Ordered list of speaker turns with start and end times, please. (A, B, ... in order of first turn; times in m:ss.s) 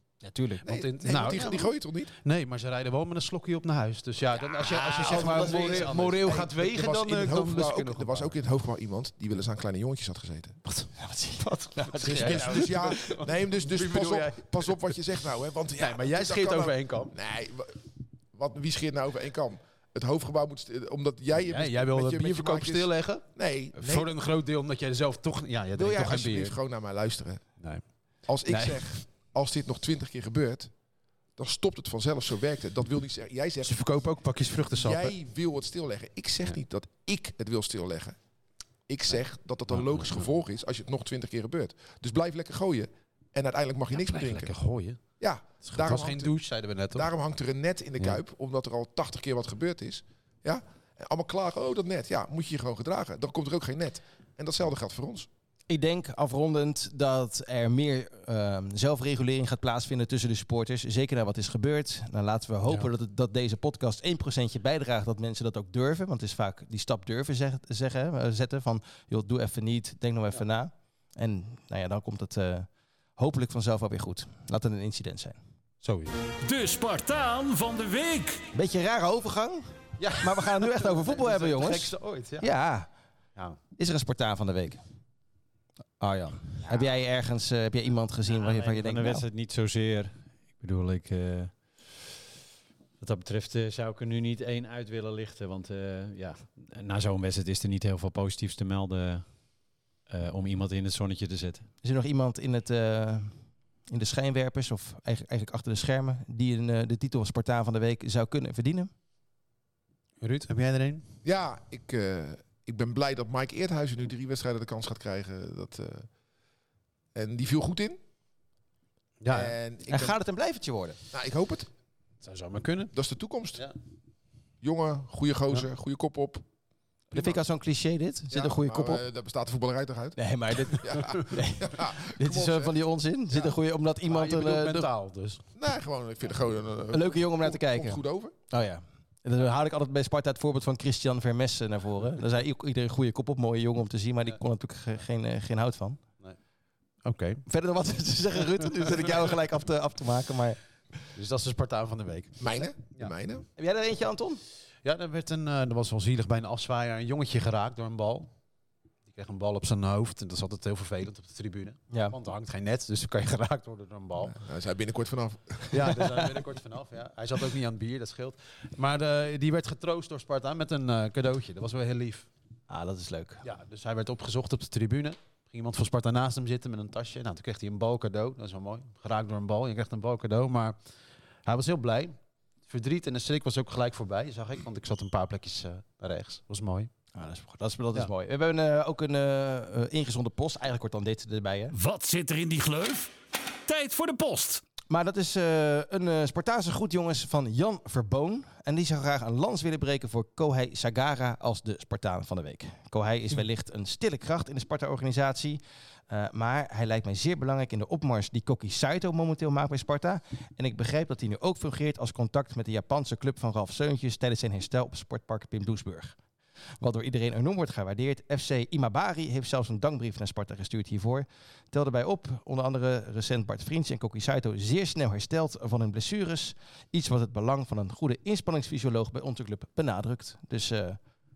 0:00.2-0:01.4 A
0:00.6-0:08.3 B
0:00.6-0:02.1 C
0:04.8-0:10.6 C
0:04.9-0:06.6 A
0:10.6-0:17.1 B
0:11.0-0:13.2 A
0:12.0-0:24.1 C
0:21.3-0:26.6 B
0:25.7-0:27.6 C
0:27.6-0:27.8 B
0:28.2-0:30.7 C
0:28.4-0:29.0 B
0:31.4-0:33.9 C
0:33.6-0:35.2 B
0:34.7-0:38.2 C
0:38.9-0:44.6 C
0:39.1-0:40.3 B
0:43.9-0:45.0 B
0:45.2-0:46.4 C
0:45.6-0:47.1 B
0:46.9-0:55.3 C
0:55.7-1:15.4 A
1:15.8-1:16.1 B
1:16.4-1:18.4 D
1:18.5-1:22.9 A
1:20.0-1:22.5 B
1:23.8-1:24.8 A
1:26.0-1:29.2 A
1:28.3-1:31.8 E
1:33.0-1:39.4 E
1:40.1-1:41.6 E
1:41.8-1:43.3 A
1:43.9-1:48.9 A
1:50.2-1:51.0 B
1:51.2-1:56.1 C
1:57.1-1:58.0 C
1:59.2-1:59.6 B
1:59.3-2:00.2 C
1:59.9-2:01.0 A
2:01.1-2:01.7 C
2:02.2-2:03.0 B
2:02.9-2:03.7 C
2:04.6-2:06.4 C
2:07.1-2:09.0 A
2:07.1-2:07.4 C
2:08.3-2:10.2 C
2:10.2-2:14.9 A
2:10.8-2:12.7 C
2:14.1-2:15.4 B
2:15.5-2:18.3 C
2:16.9-2:26.0 A
2:27.0-2:27.4 B
2:27.5-2:30.6 A
2:31.1-2:33.1 B
2:32.4-2:33.4 C
2:33.6-2:34.4 A
2:34.8-2:38.3 B
2:39.0-2:44.4 B
2:41.9-2:42.2 A
2:44.2-2:46.4 C
2:45.7-2:52.3 B
2:52.7-2:53.4 A
2:53.4-3:00.8 B
3:01.4-3:06.9 B
3:07.1-3:11.8 A
3:11.7-3:13.1 D
3:13.6-3:14.6 D
3:14.9-3:36.2 A
3:36.8-3:51.0 A